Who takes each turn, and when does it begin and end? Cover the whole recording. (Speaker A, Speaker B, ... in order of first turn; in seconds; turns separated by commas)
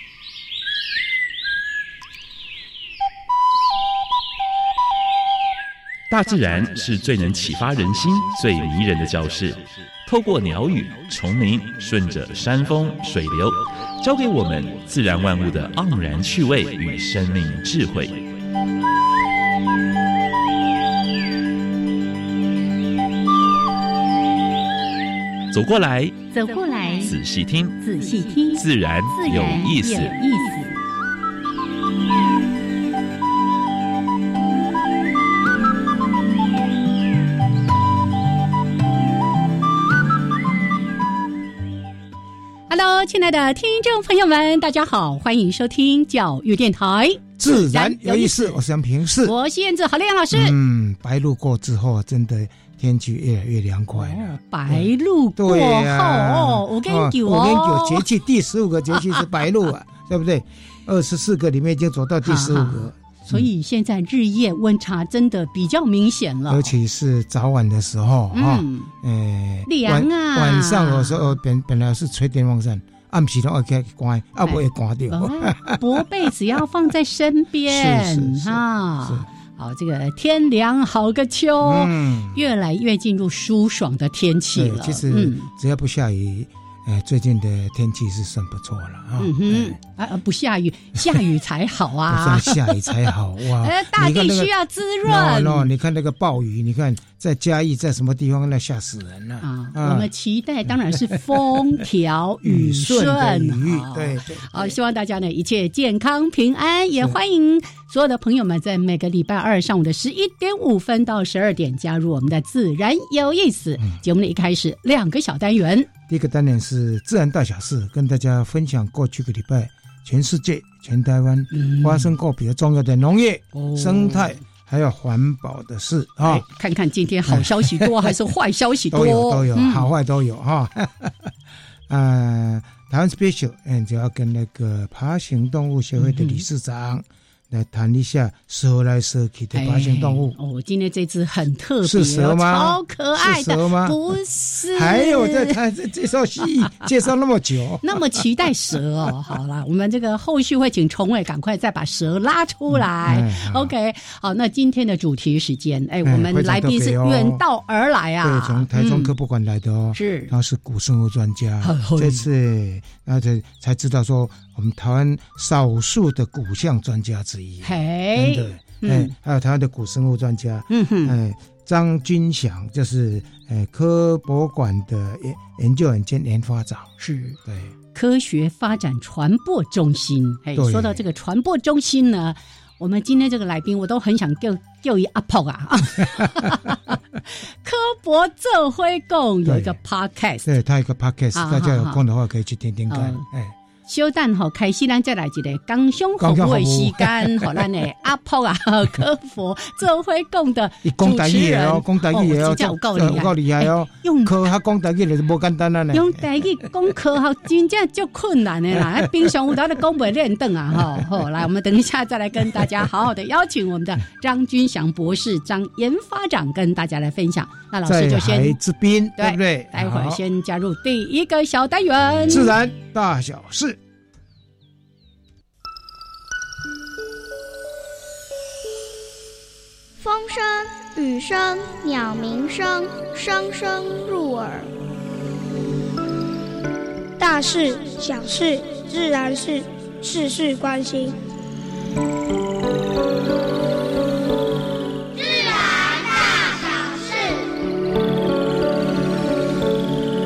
Speaker A: 6.1-18.2, Speaker A: 25.5-26.2, Speaker B: 26.3-27.1, Speaker A: 27.0-27.8, Speaker B: 27.8-30.8, Speaker A: 28.4-30.1, Speaker B: 42.7-48.6, Speaker C: 47.4-49.4, Speaker B: 49.2-50.6, Speaker C: 50.3-63.5, Speaker B: 54.0-58.0, Speaker B: 62.2-66.7, Speaker C: 66.5-76.0, Speaker B: 68.3-68.9, Speaker B: 69.7-71.4, Speaker B: 74.4-85.5, Speaker C: 77.7-79.3, Speaker C: 81.6-82.4, Speaker C: 84.5-89.8, Speaker B: 89.2-95.7, Speaker C: 92.1-94.5, Speaker C: 95.0-100.1, Speaker B: 99.4-115.9, Speaker C: 100.7-101.6, Speaker C: 102.4-104.8, Speaker C: 116.1-126.5, Speaker B: 121.5-122.1, Speaker B: 123.5-124.4, Speaker B: 126.2-129.9, Speaker C: 127.3-128.2, Speaker C: 128.9-131.1, Speaker C: 131.9-140.4, Speaker B: 136.0-136.4, Speaker B: 139.5-145.6, Speaker C: 141.8-144.0, Speaker C: 144.7-148.2, Speaker B: 147.8-159.1, Speaker C: 153.0-153.7, Speaker C: 156.1-157.4, Speaker C: 158.2-176.9, Speaker B: 159.9-160.3, Speaker B: 161.6-162.2, Speaker B: 167.6-169.1, Speaker B: 170.7-171.2, Speaker B: 177.0-177.4, Speaker C: 177.4-177.7, Speaker B: 177.9-190.5, Speaker C: 180.6-181.0, Speaker C: 189.4-189.8, Speaker C: 190.4-193.6, Speaker B: 191.3-192.0, Speaker B: 192.9-193.2, Speaker B: 193.9-204.5, Speaker C: 196.2-197.7, Speaker C: 200.8-206.2, Speaker B: 205.9-218.6, Speaker C: 217.8-220.2, Speaker B: 219.2-222.5, Speaker C: 222.3-223.8, Speaker D: 230.0-234.7, Speaker D: 237.2-241.2, Speaker D: 245.6-247.0